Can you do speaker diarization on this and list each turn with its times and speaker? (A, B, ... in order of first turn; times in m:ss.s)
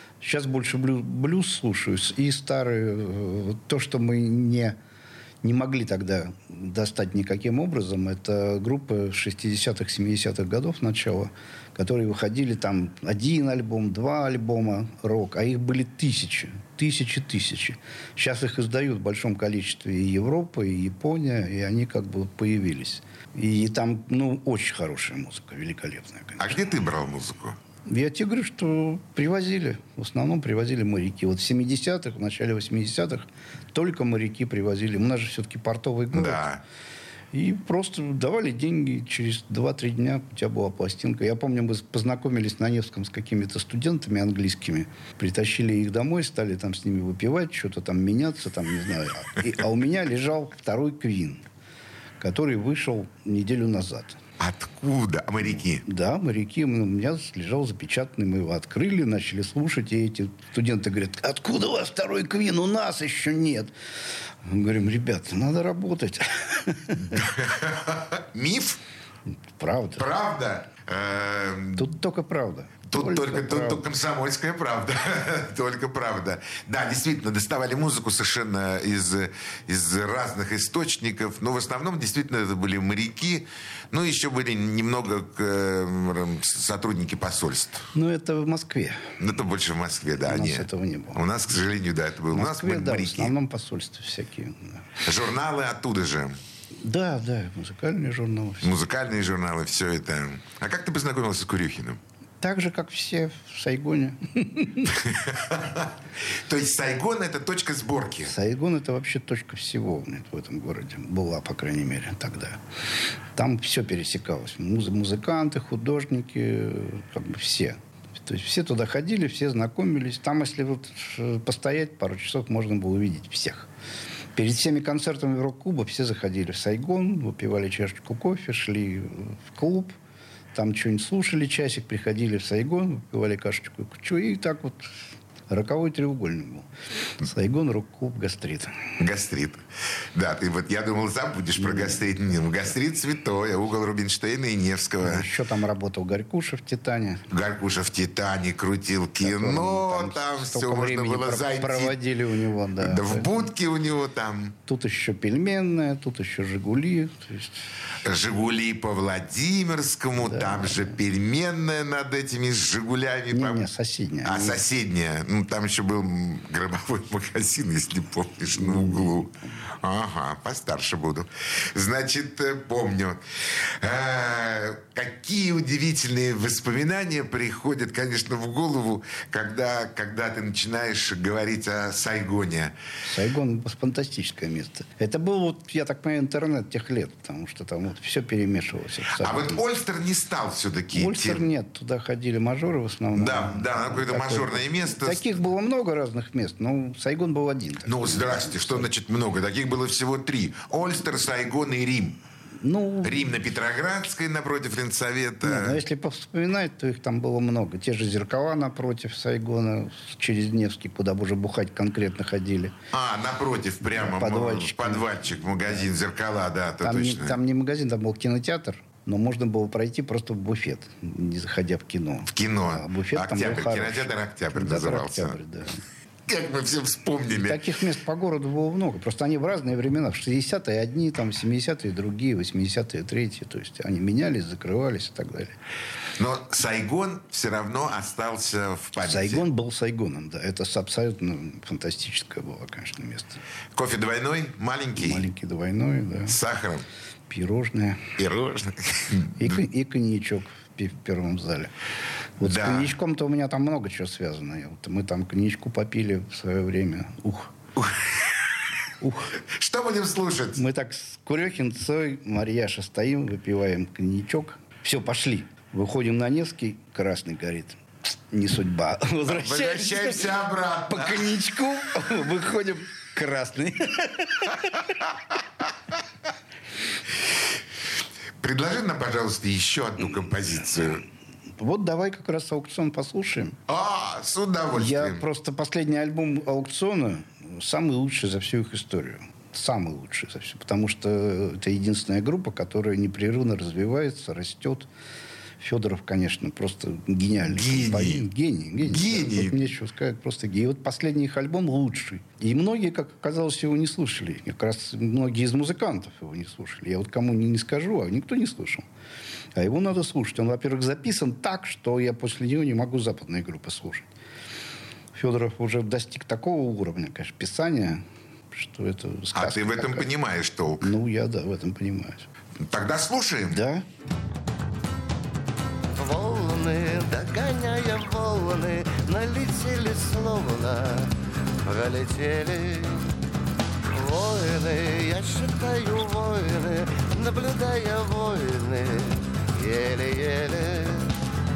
0:00.2-0:04.8 A
0:05.4-0:26.6 A
0:26.4-0:27.6 B
0:27.9-0:36.5 A
0:36.1-0:36.6 B
0:37.3-0:51.4 A
0:52.2-0:54.2 A
0:54.4-0:55.8 B
0:55.8-1:03.7 A
1:04.4-1:07.2 A
1:07.0-1:08.8 B
1:09.6-1:10.0 A
1:10.0-1:11.9 B
1:11.8-1:13.8 A
1:12.9-1:27.9 B
1:27.9-1:29.2 A
1:29.2-1:33.3 B
1:30.2-1:31.2 A
1:32.3-1:34.9 A
1:35.0-1:36.4 B
1:36.8-1:38.8 A
1:38.6-1:42.0 B
1:42.4-1:45.0 A
1:44.9-1:48.3 B
1:48.2-1:52.6 A
1:53.3-2:03.7 A
2:04.4-2:10.0 A
2:10.5-2:15.0 A
2:15.5-2:18.9 A
2:19.0-2:25.3 B
2:21.6-2:22.1 A
2:25.0-2:27.2 A
2:27.3-2:32.0 B
2:29.2-2:33.3 A
2:32.8-2:34.5 B
2:34.7-2:37.7 A
2:38.0-2:43.6 B
2:40.2-2:41.0 A
2:43.3-2:44.6 A
2:44.2-3:02.7 B
2:48.6-2:49.4 A
3:03.0-3:09.6 A
3:09.2-3:11.4 B
3:10.9-3:18.9 A
3:13.2-3:15.4 B
3:17.8-3:22.2 B
3:22.6-3:23.4 A
3:23.0-3:25.8 B
3:25.4-3:32.8 A
3:32.9-3:37.4 B
3:33.8-3:35.9 A
3:36.8-3:45.8 A
3:42.3-3:45.4 B
3:46.3-3:47.6 B
3:47.3-3:55.6 A
3:56.2-3:59.4 B
3:59.0-4:03.4 A
4:03.7-4:05.3 B
4:04.9-4:06.4 A
4:06.3-4:06.8 B
4:07.3-4:08.1 A
4:08.2-4:09.6 B
4:09.4-4:11.7 A
4:12.4-4:17.5 A
4:12.4-4:12.9 B
4:17.8-4:18.6 B
4:19.0-4:19.4 A
4:19.4-4:20.6 B
4:20.5-4:34.9 A
4:29.3-4:31.4 B
4:38.4-4:41.0 B
4:41.6-4:43.6 A
4:43.7-4:45.2 B
4:44.7-4:54.9 A
4:55.6-5:08.8 A
4:57.5-4:58.3 B
4:58.8-4:59.6 B
5:09.6-5:14.1 A
5:15.1-5:20.1 A
5:19.3-5:20.9 B
5:20.8-5:22.3 A
5:22.6-5:23.6 B
5:23.5-5:23.8 A
5:26.0-5:31.1 C
5:31.6-5:33.1 C
5:33.9-5:41.1 C